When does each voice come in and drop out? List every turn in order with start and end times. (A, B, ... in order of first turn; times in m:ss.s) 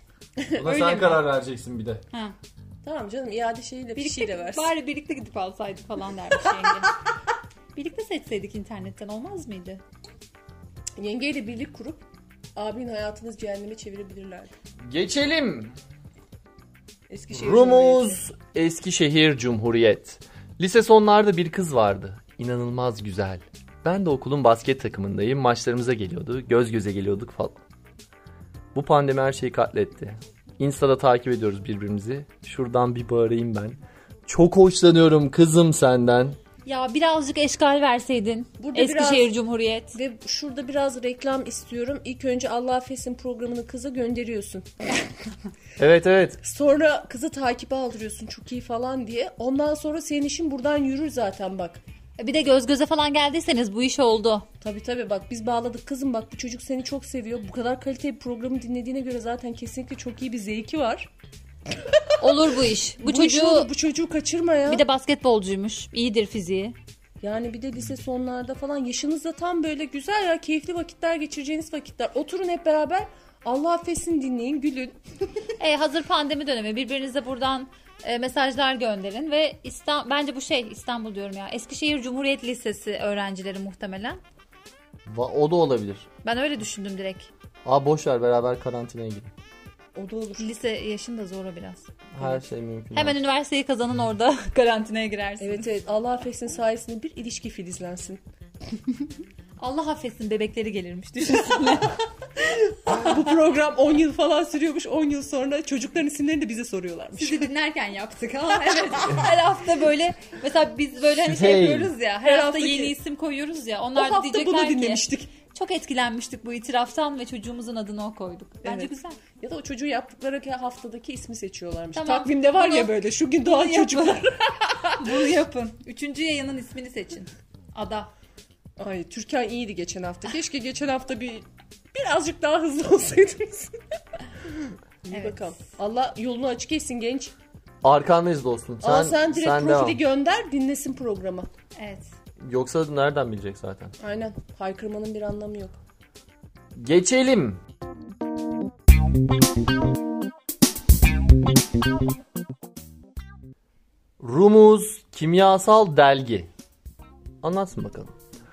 0:00.5-0:01.0 A
0:00.6-0:02.0 B
0:00.7-0:01.2 C
0:02.8-0:04.7 A
0:04.0-0:07.0 C
0:07.8-0:09.8 C
0:11.0-0:12.0 A
0:12.6-0:14.5 A
0:14.8-0:15.8 B
0:17.1-0:18.2 A
0:17.3-0:27.6 B
0:28.7-0:36.4 B
0:36.6-0:40.0 C
0:38.6-0:39.3 A
0:39.9-0:44.7 A
0:45.8-0:46.4 B
0:46.4-0:51.8 A
0:52.2-0:54.5 C
0:54.6-1:01.1 A
1:01.8-1:02.2 A
1:02.2-1:03.7 C
1:03.0-1:04.8 A
1:04.7-1:06.8 C
1:07.2-1:15.0 A
1:15.6-1:24.2 C
1:25.1-1:26.1 B
1:26.2-1:27.3 C
1:27.6-1:29.3 B
1:30.0-1:30.5 A
1:30.4-1:32.4 C
1:32.1-1:33.2 B
1:32.9-1:35.6 C
1:35.4-1:38.2 A
1:39.6-1:42.0 C
1:42.4-1:47.5 A
1:47.2-1:59.2 C
1:48.7-1:49.2 A
1:51.2-1:51.9 B
1:52.2-1:53.0 A
1:54.0-1:55.3 A
1:58.6-2:05.3 A
2:02.0-2:02.9 C
2:03.4-2:04.3 C
2:05.0-2:08.1 C
2:08.8-2:13.8 A
2:15.0-2:17.3 A
2:15.1-2:15.5 C
2:17.8-2:20.0 B
2:18.8-2:21.5 A
2:21.8-2:22.1 C
2:22.4-2:24.0 B
2:24.0-2:25.8 A
2:26.8-2:27.6 B
2:34.2-2:36.5 B
2:37.4-2:38.1 B